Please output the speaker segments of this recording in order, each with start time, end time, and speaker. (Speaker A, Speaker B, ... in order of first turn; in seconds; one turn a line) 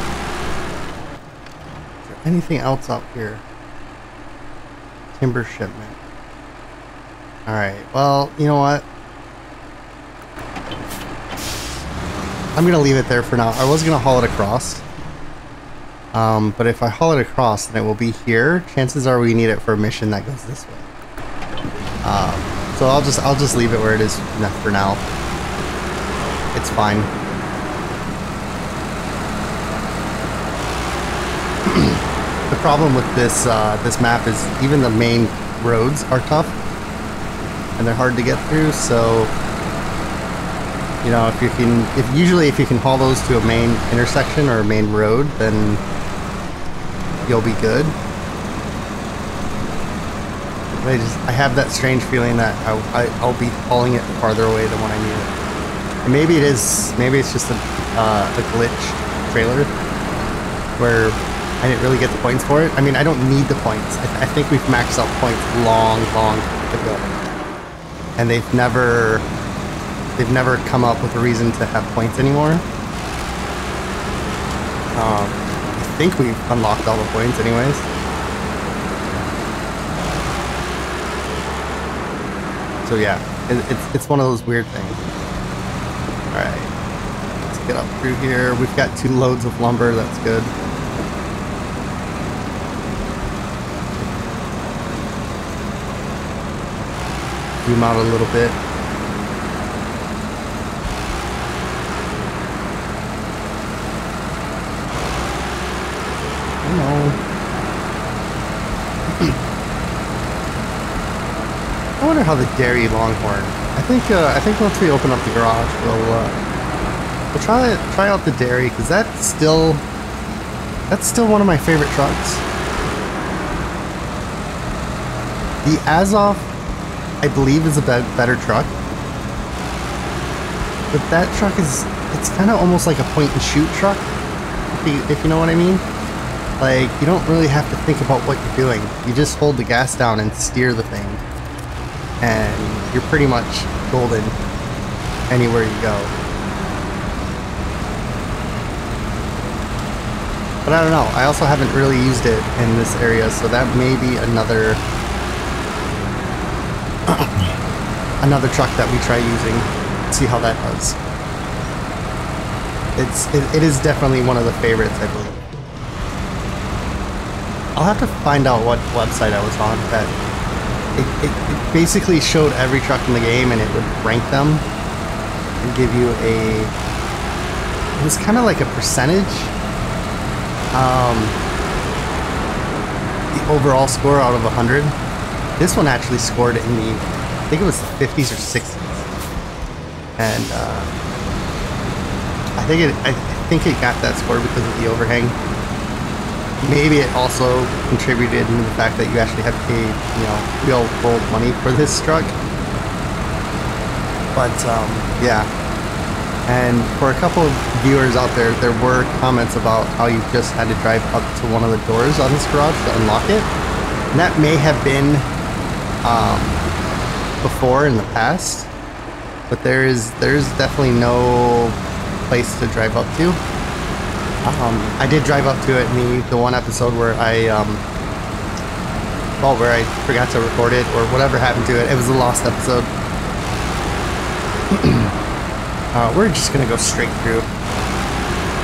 Speaker A: 2.0-3.4
Speaker A: 5.1-6.0
Speaker A: 7.5-8.8
Speaker A: 12.6-14.8
Speaker A: 16.1-20.9
Speaker A: 22.0-25.0
Speaker A: 26.5-27.1
Speaker A: 31.7-36.5
Speaker A: 37.8-39.3
Speaker A: 41.0-45.8
Speaker A: 47.2-47.9
Speaker A: 50.8-55.3
Speaker A: 56.0-59.7
Speaker A: 60.8-67.1
Speaker A: 68.2-69.2
Speaker A: 70.2-72.6
Speaker A: 74.9-75.4
Speaker A: 75.9-77.8
Speaker A: 82.8-85.0
Speaker A: 86.3-86.7
Speaker A: 87.4-90.5
Speaker A: 97.6-98.6
Speaker A: 106.6-107.2
Speaker A: 109.1-109.3
Speaker A: 112.0-116.3
Speaker A: 117.3-119.8
Speaker A: 120.9-122.4
Speaker A: 125.6-126.5
Speaker A: 127.2-128.7
Speaker A: 130.9-134.1
Speaker A: 134.7-135.8
Speaker A: 136.6-141.2
Speaker A: 142.2-144.3
Speaker A: 145.3-146.1
Speaker A: 150.7-154.8
Speaker A: 157.1-157.5
Speaker A: 158.2-161.0
Speaker A: 162.9-165.4
Speaker A: 167.7-170.1
Speaker A: 171.0-174.6
Speaker A: 175.6-176.7
Speaker A: 177.9-179.5
Speaker A: 180.7-181.3
Speaker A: 183.3-184.9
Speaker A: 185.6-189.0
Speaker A: 190.2-190.9
Speaker A: 192.6-195.3
Speaker A: 196.6-202.3
Speaker A: 204.3-205.5
Speaker A: 206.5-213.5
Speaker A: 214.1-215.3
Speaker A: 216.0-216.6
Speaker A: 217.4-218.7
Speaker A: 219.5-223.4
Speaker A: 224.4-227.8
Speaker A: 229.4-232.9
Speaker A: 234.7-235.1
Speaker A: 235.9-237.5